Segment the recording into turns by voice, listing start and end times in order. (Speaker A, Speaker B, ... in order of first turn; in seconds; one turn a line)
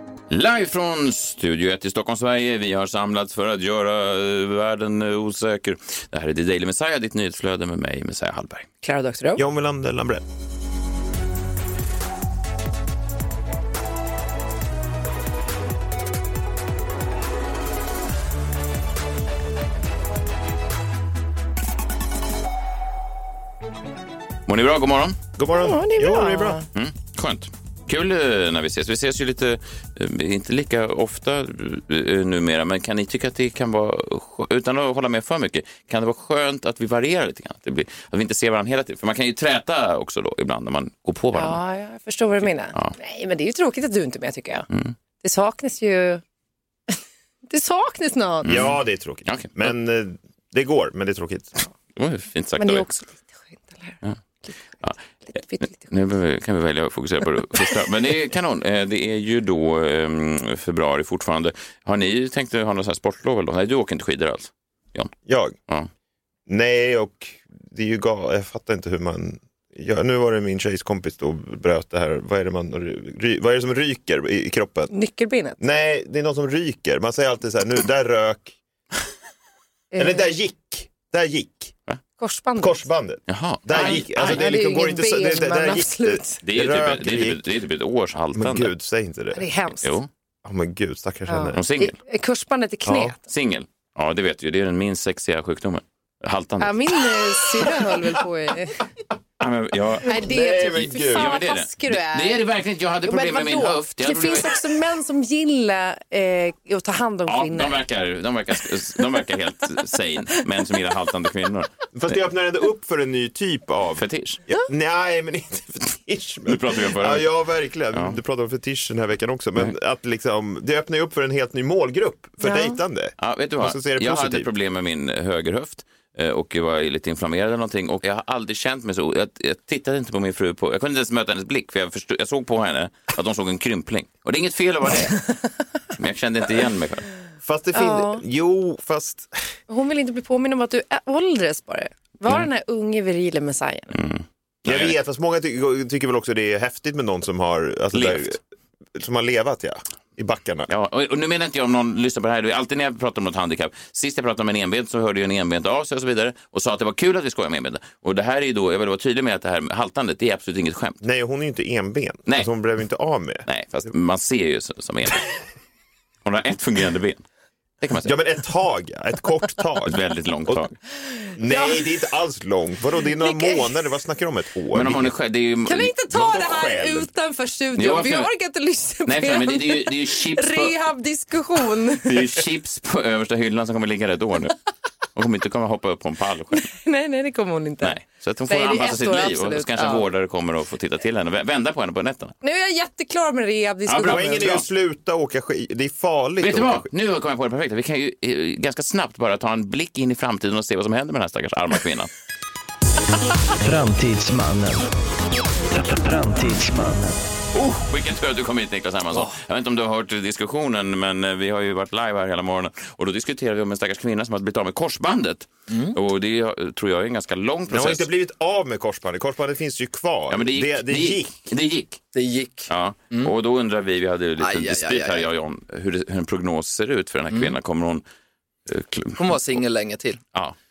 Speaker A: 0.3-8.7
Speaker B: 8.8-9.4
Speaker C: 9.4-10.2
Speaker A: 24.5-25.2
Speaker C: 25.4-26.6
Speaker B: 25.6-26.6
Speaker A: 26.7-41.6
Speaker B: 41.3-44.7
Speaker B: 45.2-46.2
Speaker B: 46.9-48.6
Speaker A: 48.4-49.6
Speaker C: 48.4-51.5
Speaker A: 51.9-52.9
Speaker B: 52.6-55.9
Speaker A: 55.7-65.1
Speaker C: 65.3-65.5
Speaker C: 66.5-74.9
Speaker B: 74.9-75.6
Speaker C: 75.6-78.5
Speaker B: 79.9-80.2
Speaker C: 80.0-81.7
Speaker B: 82.2-82.8
Speaker C: 82.6-87.4
Speaker A: 83.3-84.4
Speaker B: 83.7-86.4
Speaker A: 86.5-88.7
Speaker C: 88.3-89.5
Speaker B: 89.4-89.9
Speaker A: 89.8-90.1
Speaker C: 90.4-91.6
Speaker B: 91.3-93.2
Speaker A: 91.5-92.0
Speaker C: 92.8-93.2
Speaker A: 93.3-97.0
Speaker B: 96.6-98.8
Speaker A: 99.4-100.2
Speaker C: 100.0-101.4
Speaker B: 100.0-102.4
Speaker A: 101.1-104.6
Speaker B: 103.1-107.8
Speaker A: 107.3-111.7
Speaker C: 111.9-124.5
Speaker A: 114.0-114.4
Speaker A: 116.5-117.3
Speaker A: 117.9-118.2
Speaker B: 122.4-122.8
Speaker A: 123.2-135.3
Speaker A: 136.0-137.1
Speaker C: 137.4-139.4
Speaker B: 137.8-138.2
Speaker B: 139.7-144.0
Speaker A: 143.9-145.0
Speaker C: 144.7-148.4
Speaker A: 147.9-148.4
Speaker C: 148.9-150.7
Speaker A: 150.7-161.0
Speaker C: 161.0-163.9
Speaker A: 163.5-165.3
Speaker A: 166.2-167.2
Speaker A: 167.8-168.2
Speaker C: 168.0-170.7
Speaker A: 169.8-170.8
Speaker B: 171.2-171.9
Speaker C: 171.4-175.1
Speaker B: 173.2-173.8
Speaker A: 174.7-175.9
Speaker B: 175.7-182.3
Speaker C: 176.1-177.1
Speaker A: 177.8-178.3
Speaker A: 179.1-180.7
Speaker A: 182.0-184.6
Speaker A: 185.1-186.7
Speaker B: 186.5-190.0
Speaker A: 187.8-192.3
Speaker B: 192.4-194.6
Speaker A: 193.9-194.6
Speaker C: 194.0-196.9
Speaker A: 196.4-202.1
Speaker D: 203.6-204.9
Speaker D: 205.7-207.2
Speaker A: 207.5-218.1
Speaker E: 215.7-216.0
Speaker C: 217.7-221.3
Speaker A: 220.3-222.0
Speaker E: 222.1-223.3
Speaker A: 222.7-228.0
Speaker E: 224.4-225.3
Speaker E: 227.3-227.6
Speaker A: 228.7-229.6
Speaker E: 229.2-230.2